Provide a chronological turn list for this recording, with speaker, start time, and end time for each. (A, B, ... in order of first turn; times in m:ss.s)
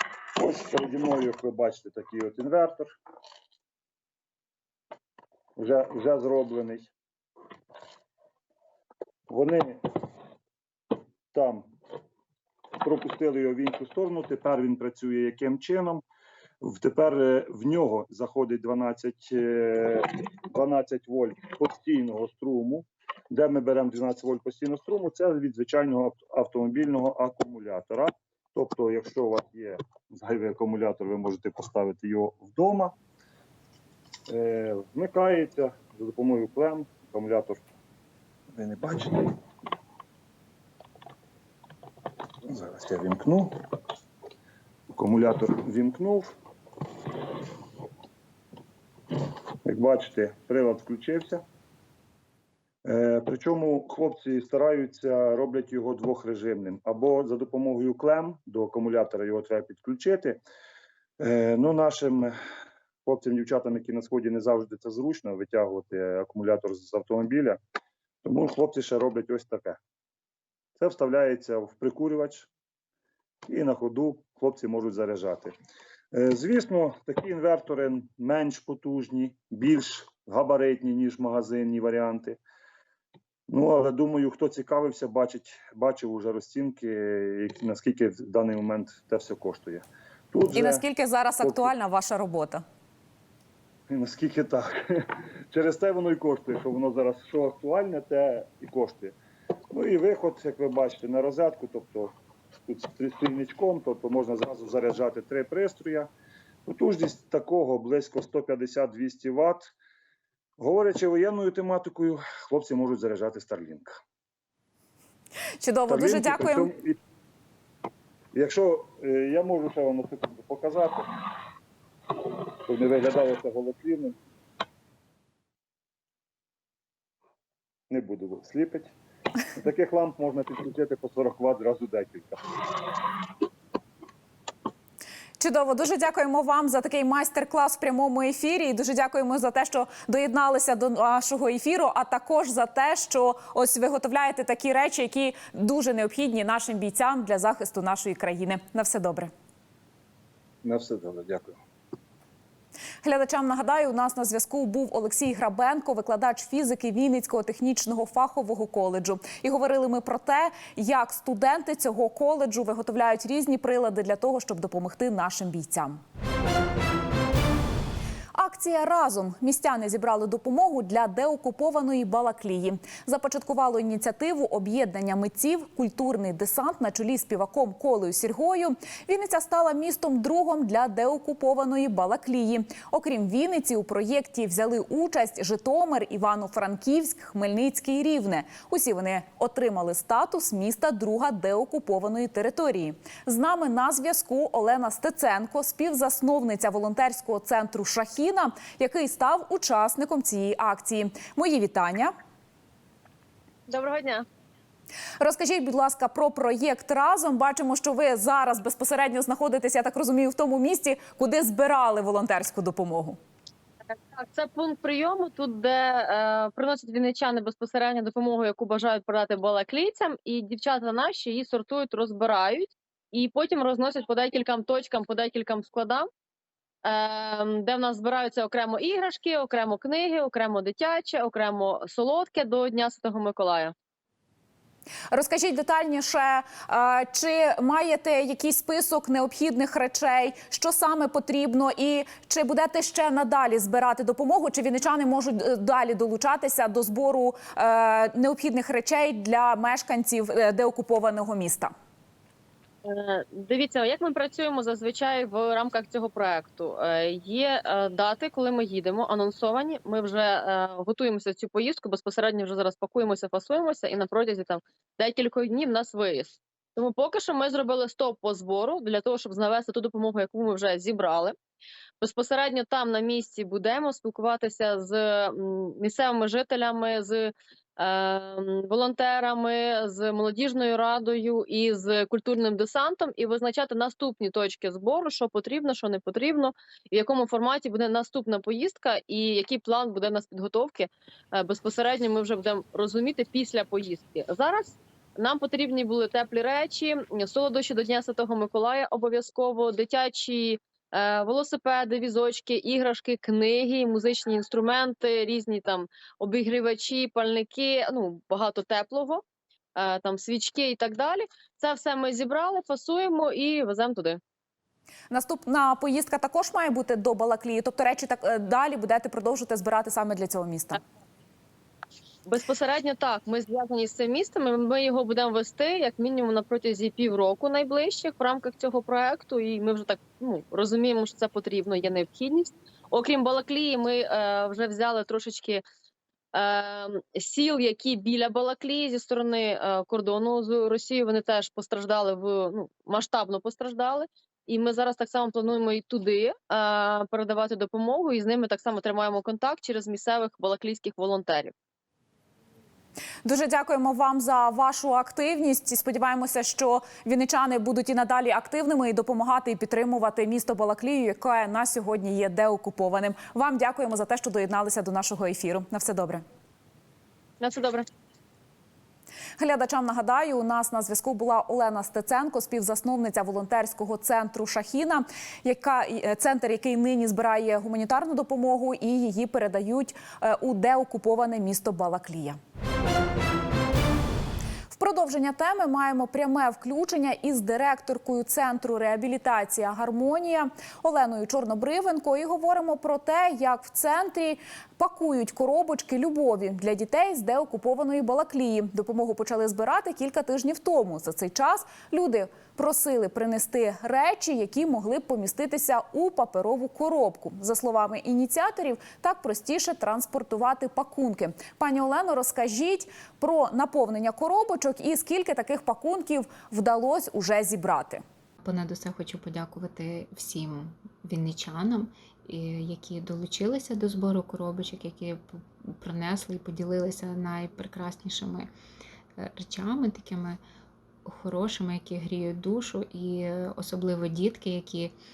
0:00.4-0:02.9 A
0:05.6-0:06.9 A
0:09.3-0:09.8 A
0:11.3-0:11.7 A
0:12.8-0:16.0 A
0:16.6-0:32.9 A
0:34.3-0:37.6 A
0:38.5-0:39.4 A
0:42.4-0:43.5 A
0:44.9-0:46.3 A
0:49.6-0:51.4 A
0:52.8-1:00.4 A
1:01.2-1:02.3 A
1:03.0-1:07.6 A
1:08.2-1:09.8 A
1:10.8-1:12.5 A
1:13.5-1:15.5 A
1:16.1-1:22.4 A
1:23.5-1:30.8 A
1:30.5-1:32.6 B
1:31.4-1:31.7 A
1:33.9-1:39.2 A
1:39.7-1:42.1 A
1:42.7-1:46.1 A
1:46.6-1:49.7 A
1:50.6-1:54.0 A
1:55.6-1:56.7 B
1:55.9-1:57.0 A
1:58.3-2:01.1 A
2:02.6-2:04.1 A
2:07.9-2:08.9 A
2:09.5-2:12.9 A
2:15.4-2:29.3 B
2:30.6-2:31.6 A
2:33.0-2:46.0 B
2:48.3-3:22.1 B
3:23.7-3:24.2 C
3:25.2-3:33.2 B
3:34.1-3:46.1 C
3:46.8-3:53.7 C
3:55.1-4:11.7 B
4:12.8-4:31.3 C
4:32.0-5:09.2 C
5:09.8-5:14.2 C
5:15.1-5:20.8 B
5:22.3-5:35.6 C
5:36.3-5:51.5 C
5:53.2-6:06.2 B
6:07.4-6:07.8 C
6:09.4-6:22.4 B
6:24.7-6:58.0 B
6:58.4-7:08.5 D
7:09.2-7:10.4 D
7:11.0-7:14.9 D